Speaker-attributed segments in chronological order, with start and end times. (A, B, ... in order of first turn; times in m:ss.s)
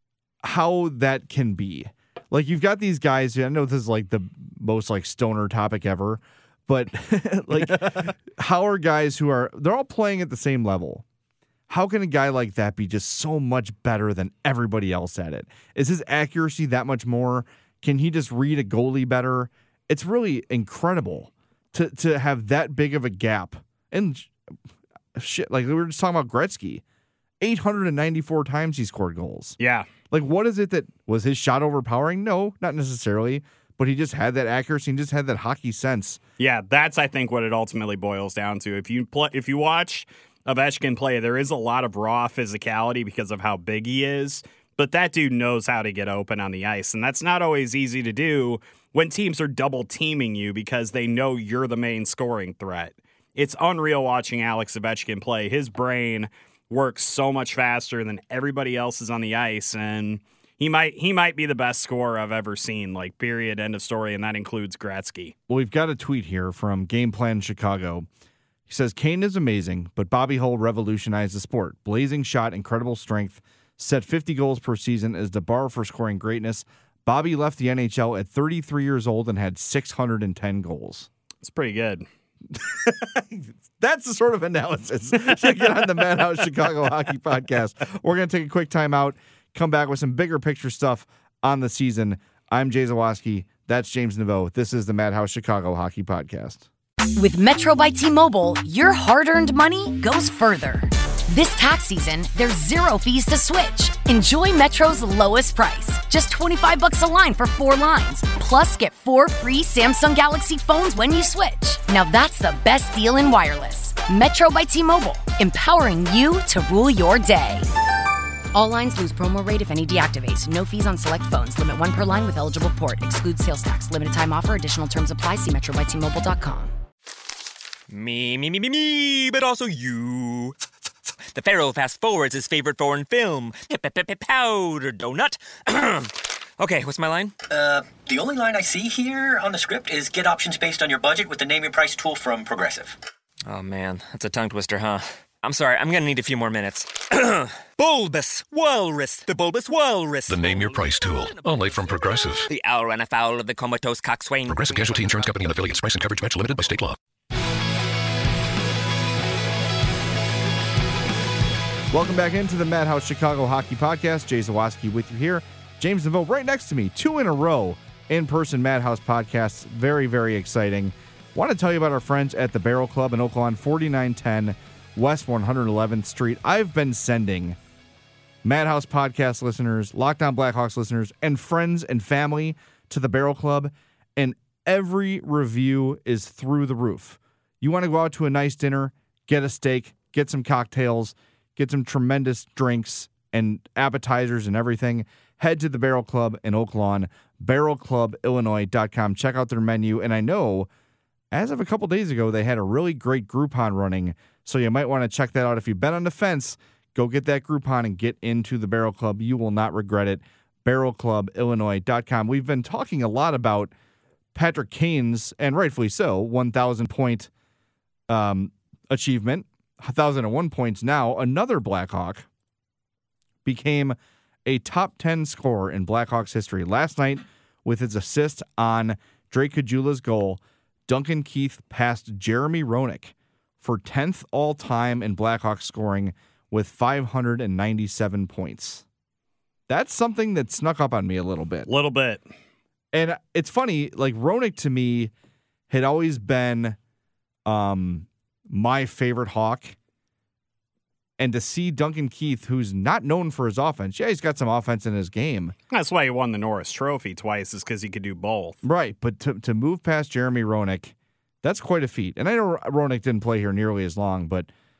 0:00.4-0:11.0 A
0:11.7-0:24.3 A
0:25.1-0:26.8 A
0:27.4-0:29.6 A
0:29.6-0:29.9 B
0:30.1-0:36.2 A
0:36.4-1:05.3 B
1:05.5-1:08.1 A
1:08.7-1:21.1 A
1:21.4-1:22.0 B
1:22.5-1:36.7 A
1:37.2-1:57.7 C
1:58.5-2:06.7 C
2:07.9-2:10.5 D
2:11.3-2:17.3 D
2:17.5-2:23.0 E
2:23.5-2:30.7 D
2:30.3-2:32.5 F
2:32.5-2:35.0 D
2:34.5-2:37.0 F
2:41.9-2:57.6 A
2:58.4-3:20.7 A
3:21.3-3:33.7 A
3:34.3-3:37.3 A
3:38.1-3:42.3 A
3:43.4-3:58.8 A
3:59.7-4:01.7 A
4:01.7-4:02.3 B
4:02.9-4:05.1 A
4:05.7-4:06.8 A
4:07.4-4:09.8 A
4:11.2-4:15.5 A
4:15.7-4:18.6 B
4:18.6-4:24.5 A